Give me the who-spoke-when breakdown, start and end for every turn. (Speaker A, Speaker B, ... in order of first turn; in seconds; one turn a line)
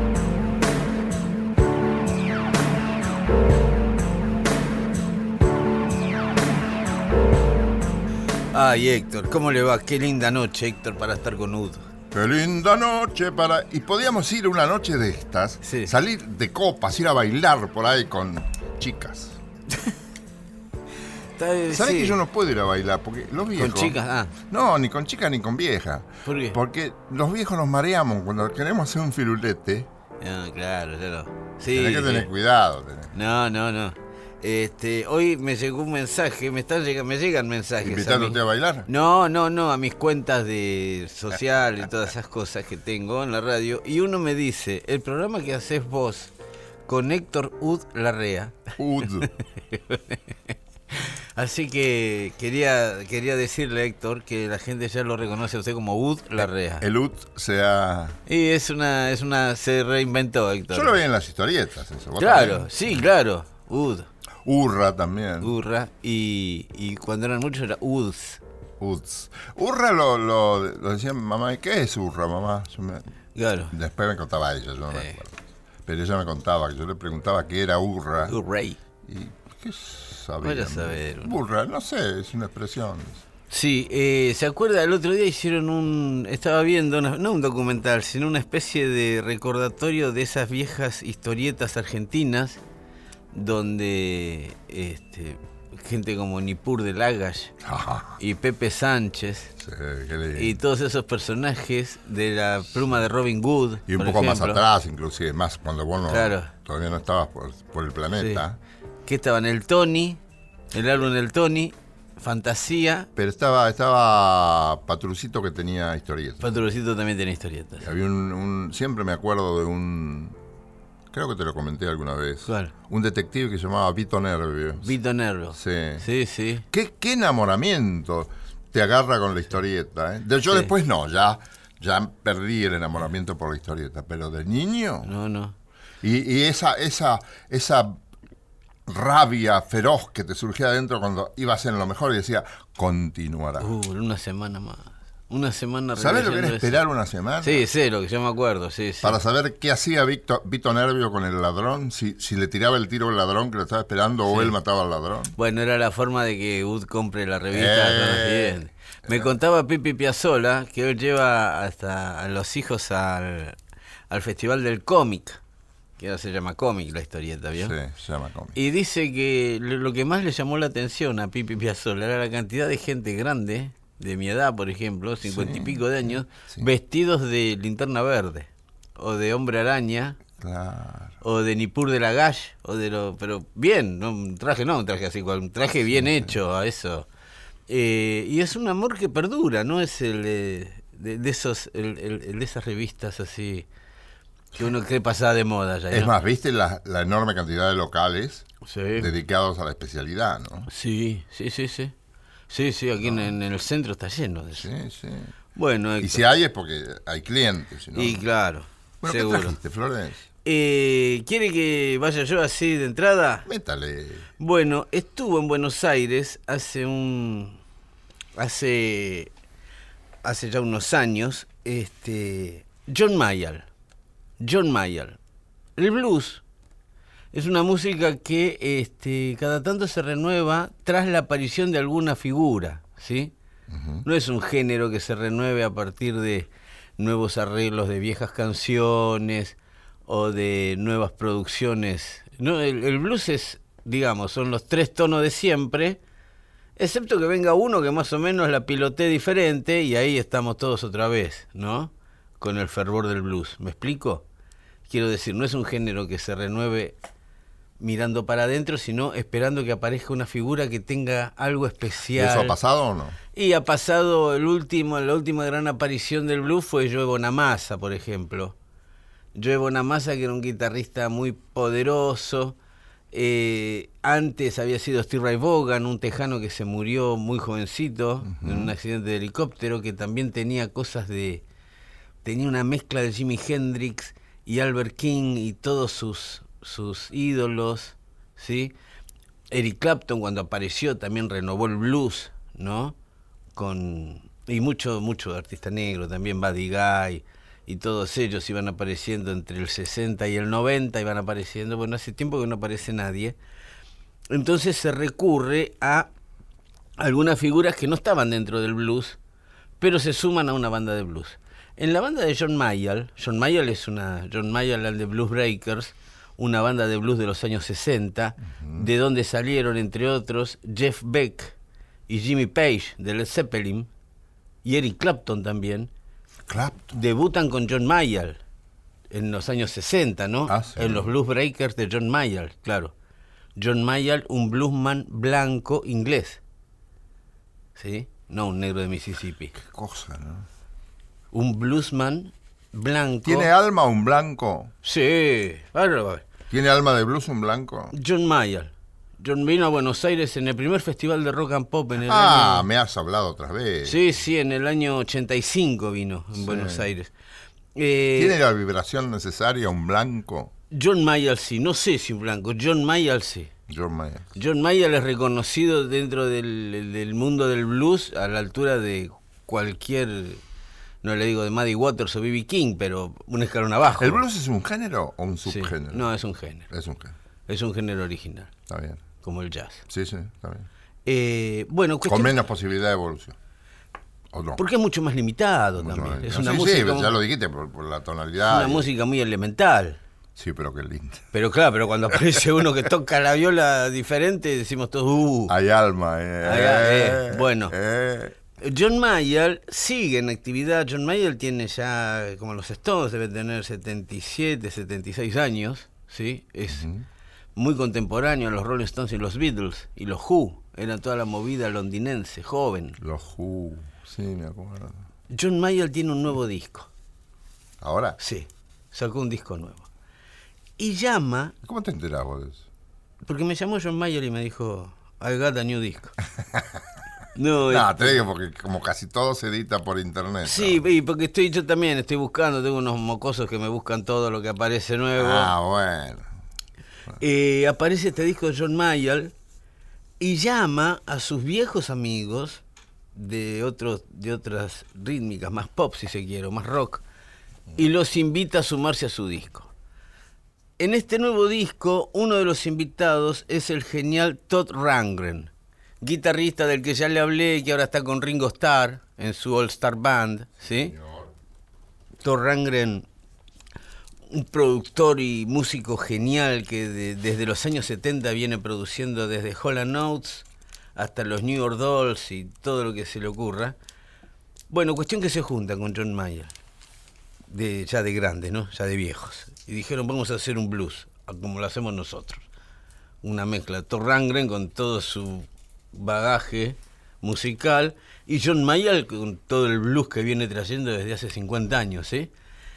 Speaker A: 8.5-11.9
Speaker B: 12.1-19.4
Speaker A: 15.6-15.9
Speaker A: 21.4-22.2
Speaker B: 21.7-29.9
Speaker A: 23.6-24.3
Speaker A: 26.2-26.6
Speaker A: 30.2-32.3
Speaker B: 31.7-33.1
Speaker A: 33.1-46.3
Speaker B: 37.8-38.9
Speaker A: 46.9-48.5
Speaker B: 48.8-49.3
Speaker A: 49.2-56.8
Speaker B: 56.4-58.2
Speaker A: 58.3-61.0
Speaker B: 60.7-62.7
Speaker A: 62.2-64.1
Speaker B: 64.4-65.5
Speaker A: 65.4-68.4
Speaker B: 68.8-73.1
Speaker A: 73.3-73.7
Speaker B: 73.7-78.3
Speaker A: 78.3-78.8
Speaker B: 79.0-83.2
Speaker A: 80.4-81.3
Speaker A: 83.5-92.6
Speaker A: 93.3-97.5
Speaker B: 97.6-98.2
Speaker A: 98.2-99.5
Speaker B: 99.6-100.6
Speaker A: 100.3-104.6
Speaker B: 103.9-108.6
Speaker A: 106.1-106.5
Speaker A: 108.2-108.4
Speaker A: 109.0-110.2
Speaker A: 110.7-113.1
Speaker B: 113.2-116.6
Speaker A: 116.4-117.8
Speaker B: 117.8-120.4
Speaker B: 121.1-124.9
Speaker A: 122.5-122.7
Speaker A: 124.8-126.6
Speaker B: 125.5-126.1
Speaker B: 126.7-135.1
Speaker A: 135.0-135.6
Speaker B: 136.0-138.0
Speaker B: 138.9-143.7
Speaker A: 143.6-146.8
Speaker B: 145.9-147.7
Speaker A: 147.4-149.2
Speaker B: 149.0-155.3
Speaker A: 154.3-154.5
Speaker A: 155.4-163.6
Speaker B: 157.5-159.3
Speaker A: 164.1-165.4
Speaker A: 166.0-167.7
Speaker B: 167.6-168.6
Speaker A: 168.5-180.2
Speaker B: 175.2-176.7
Speaker B: 180.4-181.2
Speaker A: 181.2-187.1
Speaker B: 185.9-186.3
Speaker A: 187.7-193.7
Speaker A: 194.5-196.1
Speaker B: 195.9-200.7
Speaker A: 198.6-199.1
Speaker A: 200.7-201.9
Speaker A: 202.5-204.7
Speaker B: 203.0-203.3
Speaker B: 204.5-205.3
Speaker A: 205.6-206.2
Speaker B: 206.0-208.2
Speaker A: 207.9-209.6
Speaker B: 209.0-210.2
Speaker A: 210.4-213.4
Speaker B: 213.4-214.3
Speaker A: 214.4-217.6
Speaker A: 218.3-219.3
Speaker A: 220.2-223.7
Speaker A: 224.4-225.2
Speaker A: 225.8-226.4
Speaker A: 227.3-233.3
Speaker B: 233.7-234.1
Speaker A: 234.0-246.0
Speaker A: 246.8-254.2
Speaker A: 254.9-256.9
Speaker A: 257.8-262.6
Speaker B: 262.1-263.2
Speaker A: 263.3-268.5
Speaker A: 269.4-272.6
Speaker A: 273.1-281.4
Speaker B: 278.2-278.7
Speaker A: 282.2-288.7
Speaker A: 289.5-292.9
Speaker A: 293.6-303.4
Speaker A: 304.3-306.1
Speaker A: 307.0-309.2
Speaker A: 309.8-321.5
Speaker B: 318.4-318.9
Speaker A: 322.1-323.9
Speaker A: 324.6-325.9
Speaker B: 326.5-326.9
Speaker A: 326.9-328.4
Speaker A: 329.1-332.9
Speaker B: 330.5-331.1
Speaker A: 333.6-336.4
Speaker A: 337.8-339.5
Speaker B: 339.5-340.4
Speaker A: 341.3-343.5
Speaker B: 343.2-344.7
Speaker A: 344.8-346.2
Speaker B: 346.5-347.9
Speaker A: 347.9-352.6
Speaker B: 352.0-354.1
Speaker A: 353.8-357.1
Speaker B: 356.3-356.9
Speaker A: 357.8-358.4
Speaker B: 358.1-360.5
Speaker A: 360.7-363.5
Speaker B: 363.7-364.3
Speaker A: 364.4-370.4
Speaker A: 371.0-374.2
Speaker B: 374.0-376.1
Speaker A: 375.4-376.7
Speaker B: 376.7-377.1
Speaker A: 377.5-378.5
Speaker B: 378.7-379.0
Speaker A: 379.2-379.8
Speaker B: 379.9-380.7
Speaker A: 381.1-382.4
Speaker B: 382.1-383.4
Speaker B: 384.3-384.6
Speaker A: 384.6-387.1
Speaker B: 385.8-388.9
Speaker A: 388.4-390.0
Speaker B: 390.4-391.3
Speaker A: 391.3-395.5
Speaker B: 395.5-398.4
Speaker A: 396.4-397.7
Speaker A: 398.6-406.8
Speaker B: 406.7-407.0
Speaker A: 407.6-413.0
Speaker B: 413.0-415.0
Speaker A: 415.3-416.9
Speaker B: 417.8-418.2
Speaker A: 418.2-419.9
Speaker A: 420.8-421.5
Speaker B: 421.6-422.6
Speaker A: 423.2-426.1
Speaker B: 426.5-426.8
Speaker A: 427.4-428.2
Speaker B: 427.7-430.8
Speaker A: 430.4-435.5
Speaker B: 435.1-436.3
Speaker A: 437.2-439.3
Speaker A: 440.2-442.6
Speaker A: 443.1-447.0
Speaker A: 447.8-449.7
Speaker A: 450.8-455.5
Speaker A: 456.0-460.9
Speaker B: 460.6-461.3
Speaker A: 462.2-463.1
Speaker A: 464.3-473.7
Speaker A: 474.7-476.5
Speaker A: 477.5-482.4
Speaker A: 483.2-492.3